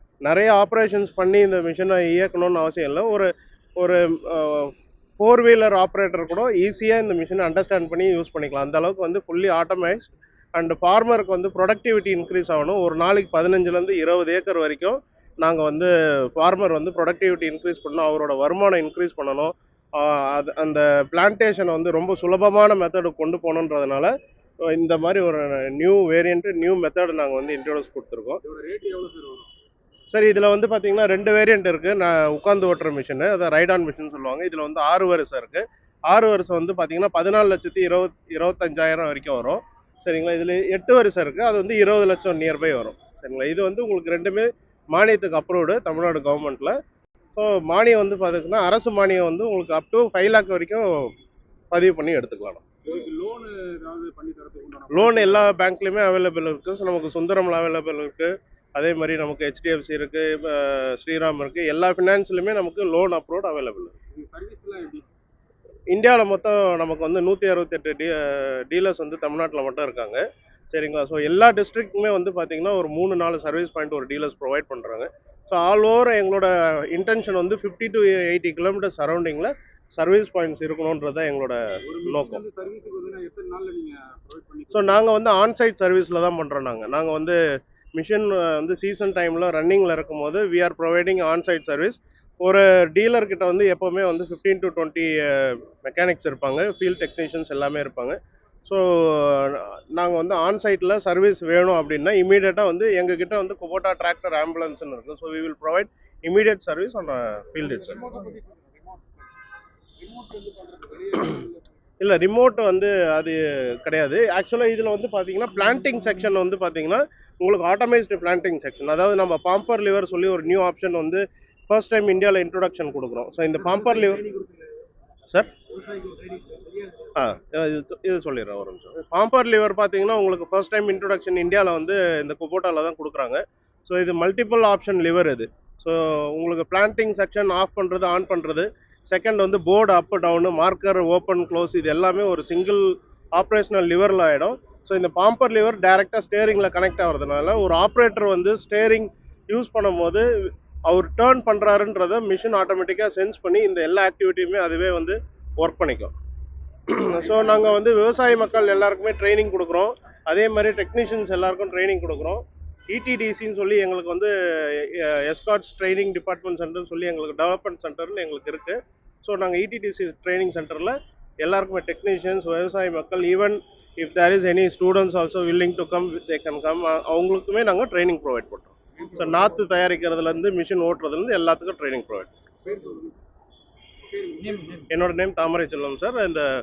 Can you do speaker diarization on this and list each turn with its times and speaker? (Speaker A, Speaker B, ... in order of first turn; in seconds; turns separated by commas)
Speaker A: 0.3-24.1, Speaker A: 24.7-28.4, Speaker B: 28.4-29.5, Speaker A: 30.1-46.8, Speaker A: 47.3-51.1, Speaker A: 51.7-52.6, Speaker B: 52.9-55.5, Speaker A: 54.9-63.9, Speaker B: 64.1-65.1, Speaker A: 65.9-82.4, Speaker B: 81.9-85.0, Speaker A: 84.7-87.4, Speaker A: 88.0-108.1, Speaker B: 107.7-109.0, Speaker B: 110.0-111.6, Speaker A: 112.0-124.3, Speaker B: 125.8-126.9, Speaker A: 127.2-156.1, Speaker A: 156.9-182.3, Speaker B: 182.7-183.1, Speaker B: 184.1-184.9, Speaker A: 184.9-186.5